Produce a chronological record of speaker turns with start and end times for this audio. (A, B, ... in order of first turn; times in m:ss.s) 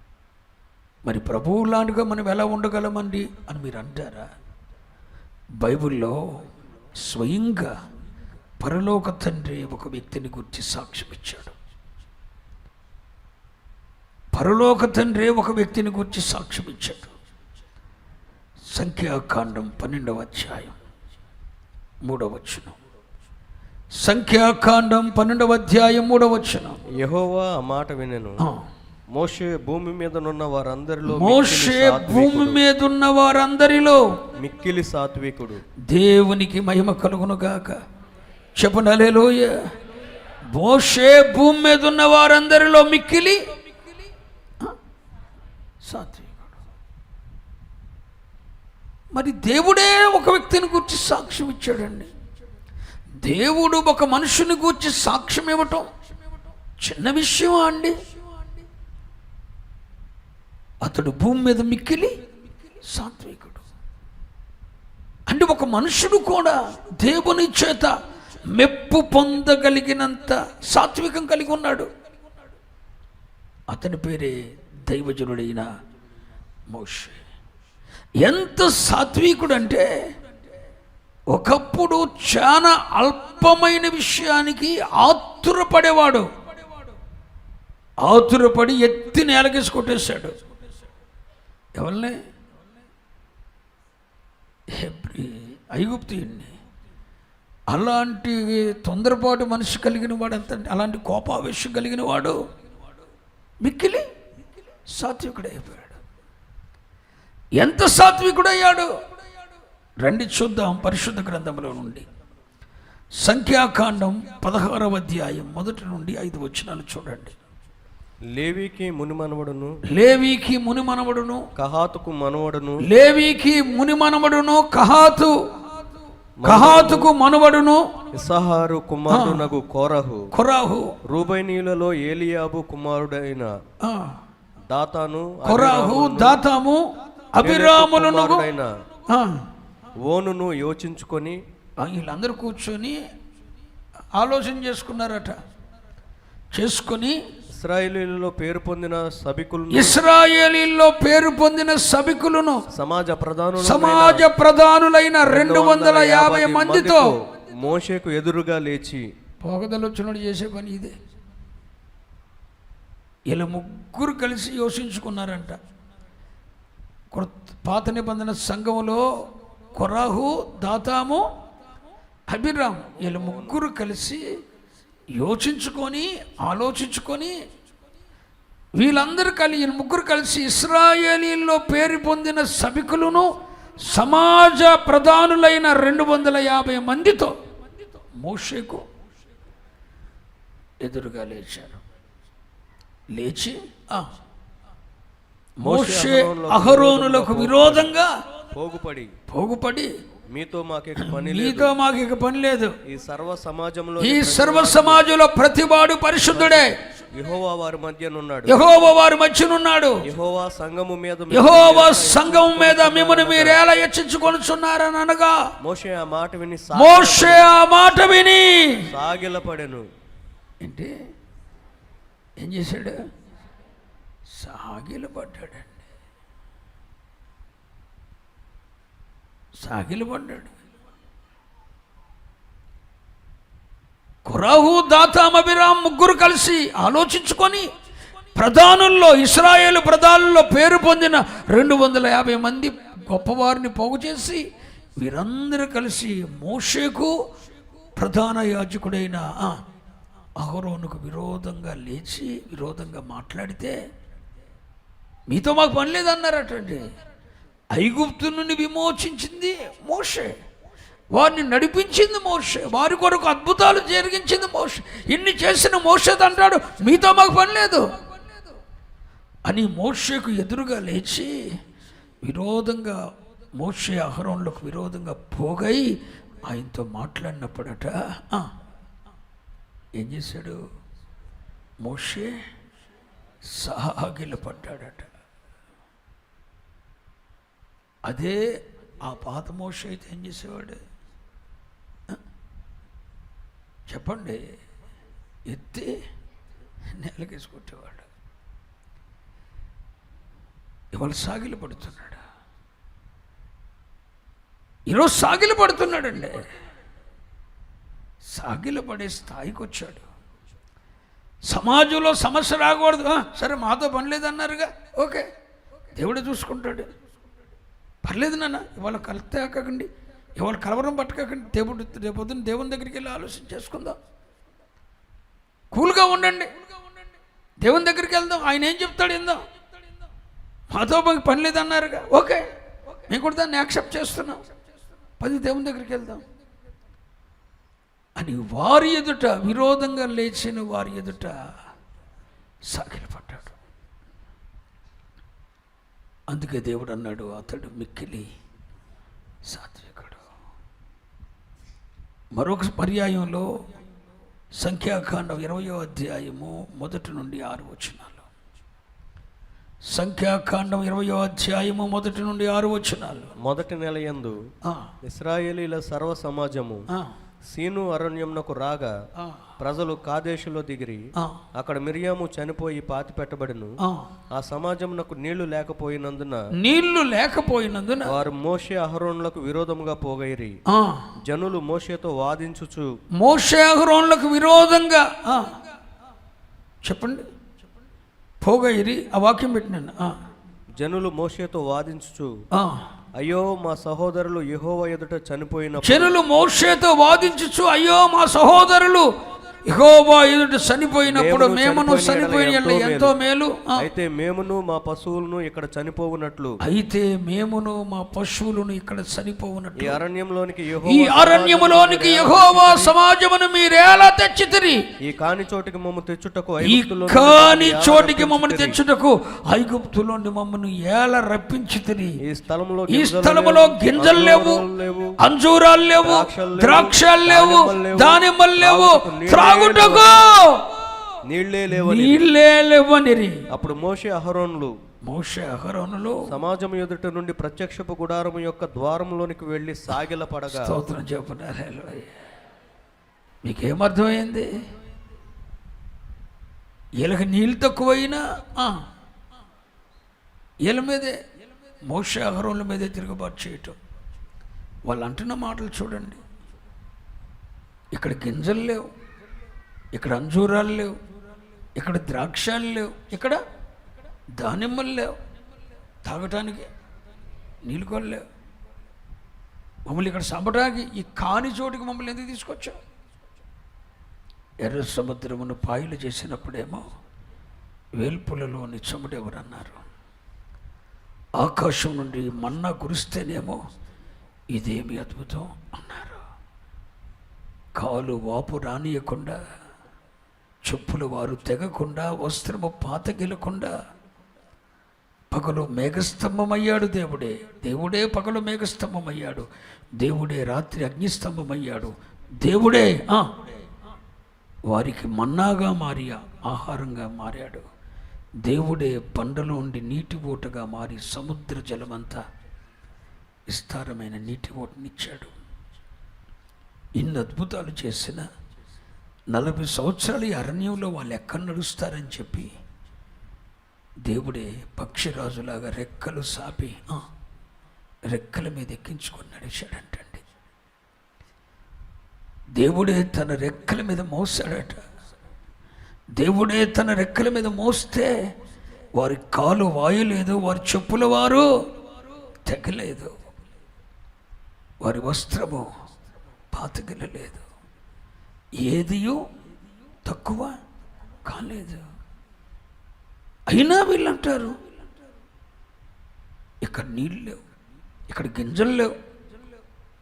0:01.0-0:04.3 A
0:05.6-0:06.4 A
0:07.0-0:07.7 A
0:08.6-0:11.5 A
0:14.3-0:17.1 A
0:18.7-0:20.7 A
0:22.0-0:22.7 A
0:24.0-0:26.8 A
0:27.0-0:28.4 B
0:29.1-0:32.6 B
0:31.1-0:34.0 A
0:34.4-0:35.6 B
0:35.9-0:37.8 A
0:38.6-0:39.5 A
0:40.5-0:43.4 A
0:45.8-0:46.4 A
0:49.1-0:52.1 A
0:53.2-0:55.9 A
0:56.8-0:58.0 A
1:00.8-1:02.2 A
1:02.8-1:03.6 A
1:05.3-1:07.9 A
1:08.5-1:11.9 A
1:13.7-1:15.7 A
1:16.7-1:17.2 A
1:18.2-1:19.9 A
1:21.3-1:26.3 A
1:28.0-1:30.4 A
1:31.7-1:32.2 A
1:34.8-1:36.5 A
1:37.7-1:42.4 A
1:43.6-1:44.1 A
1:44.9-1:46.0 A
1:47.6-1:48.9 A
1:50.0-1:52.0 A
1:53.2-1:57.3 A
1:58.4-1:59.7 B
1:59.9-2:01.4 A
2:01.6-2:02.8 B
2:02.8-2:05.3 A
2:06.4-2:07.1 B
2:06.4-2:07.9 A
2:08.1-2:10.2 B
2:09.1-2:09.5 A
2:10.3-2:10.9 A
2:11.1-2:13.5 B
2:13.8-2:14.2 A
2:14.7-2:16.4 B
2:15.4-2:16.8 A
2:17.3-2:18.4 A
2:17.4-2:18.7 B
2:19.1-2:19.4 A
2:20.1-2:21.4 B
2:21.8-2:23.0 A
2:24.1-2:25.4 A
2:26.5-2:27.2 A
2:27.6-2:30.0 B
2:29.7-2:32.6 A
2:32.7-2:34.3 B
2:33.6-2:37.1 A
2:35.2-2:39.0 B
2:39.4-2:40.9 A
2:43.3-2:45.6 A
2:47.1-2:49.0 A
2:49.7-2:51.3 A
2:52.3-2:54.2 A
2:53.0-2:53.6 B
2:55.2-2:57.3 A
2:58.8-3:07.4 A
3:08.2-3:08.8 A
3:10.8-3:11.8 A
3:13.1-3:14.0 A
3:15.6-3:18.1 A
3:15.6-3:17.9 B
3:18.5-3:19.1 B
3:19.3-3:19.9 A
3:20.3-3:21.7 B
3:21.0-3:22.7 A
3:22.9-3:25.1 B
3:24.0-3:26.8 A
3:26.3-3:28.6 B
3:28.5-3:30.0 A
3:30.0-3:33.6 B
3:31.3-3:35.4 A
3:35.6-3:37.5 B
3:36.7-3:38.9 A
3:38.8-3:39.8 B
3:40.6-3:40.9 A
3:42.4-3:43.0 A
3:44.3-3:45.8 A
3:49.6-3:50.5 A
3:54.2-3:57.6 A
3:58.3-4:04.4 A
4:05.0-4:07.2 A
4:08.0-4:09.6 A
4:10.4-4:13.7 A
4:15.3-4:16.9 A
4:17.7-4:20.3 A
4:21.1-4:27.9 A
4:29.4-4:31.3 A
4:32.2-4:33.0 A
4:33.5-4:38.5 A
4:39.9-4:40.6 A
4:41.8-4:42.4 A
4:43.4-4:45.1 A
4:48.0-4:48.4 A
4:49.0-4:50.8 A
4:53.9-4:54.4 A
4:55.5-4:56.0 A
4:56.9-4:58.0 A
5:00.9-5:02.2 A
5:04.9-5:06.5 A
5:08.3-5:10.1 A
5:11.5-5:15.2 A
5:15.9-5:16.9 A
5:18.0-5:24.0 A
5:25.7-5:26.5 A
5:27.6-5:29.4 A
5:30.7-5:32.4 A
5:33.1-5:34.4 A
5:35.2-5:36.2 A
5:38.2-5:41.4 A
5:42.7-5:43.6 A
5:46.3-5:48.3 A
5:49.4-5:50.2 A
5:52.3-5:53.5 A
5:54.6-5:58.2 A
5:59.9-6:03.3 A
6:03.4-6:04.4 B
6:04.6-6:04.9 A
6:05.0-6:06.8 B
6:07.5-6:08.9 B
6:09.2-6:09.5 A
6:09.6-6:11.0 B
6:11.6-6:13.8 B
6:13.8-6:14.1 A
6:14.3-6:16.4 B
6:16.6-6:18.2 A
6:18.1-6:20.5 B
6:20.7-6:21.1 A
6:21.2-6:22.9 B
6:23.2-6:25.6 A
6:26.8-6:27.2 A
6:28.4-6:30.2 A
6:30.8-6:32.3 B
6:32.5-6:32.9 A
6:33.2-6:36.2 B
6:35.8-6:39.1 A
6:39.6-6:43.8 A
6:41.1-6:43.1 B
6:43.8-6:46.5 B
6:46.6-6:50.0 A
6:49.8-6:52.9 B
6:50.8-6:54.8 A
6:55.0-6:58.8 B
6:56.6-7:02.2 A
7:02.2-7:05.1 B
7:02.9-7:04.6 A
7:05.2-7:10.6 A
7:06.0-7:10.3 B
7:11.2-7:12.3 B
7:11.7-7:13.4 A
7:13.5-7:14.7 B
7:15.0-7:16.2 A
7:16.3-7:20.8 B
7:20.5-7:22.1 A
7:23.4-7:24.5 A
7:27.0-7:28.8 A
7:30.6-7:31.2 A
7:31.8-7:33.8 A
7:34.9-7:36.2 A
7:37.9-7:38.9 A
7:39.9-7:40.9 A
7:41.7-7:43.4 A
7:44.4-7:45.1 A
7:46.0-7:46.7 A
7:47.6-7:48.2 A
7:49.8-7:52.8 A
7:54.6-7:56.9 A
7:58.0-7:59.8 A
8:01.4-8:03.6 A
8:04.5-8:06.2 A
8:07.7-8:09.4 A
8:10.6-8:13.7 A
8:15.3-8:19.5 A
8:20.0-8:23.3 A
8:24.7-8:27.6 A
8:28.4-8:32.2 A
8:33.5-8:35.3 A
8:36.9-8:38.2 A
8:39.3-8:42.5 A
8:44.0-8:47.0 A
8:48.0-8:50.2 A
8:52.5-8:54.8 A
8:56.1-8:58.1 A
8:58.9-9:01.5 A
9:02.4-9:03.2 A
9:04.8-9:05.7 A
9:06.5-9:07.4 A
9:08.6-9:09.2 A
9:10.0-9:10.6 A
9:11.2-9:11.9 A
9:13.5-9:14.6 A
9:16.6-9:17.4 A
9:18.1-9:18.9 A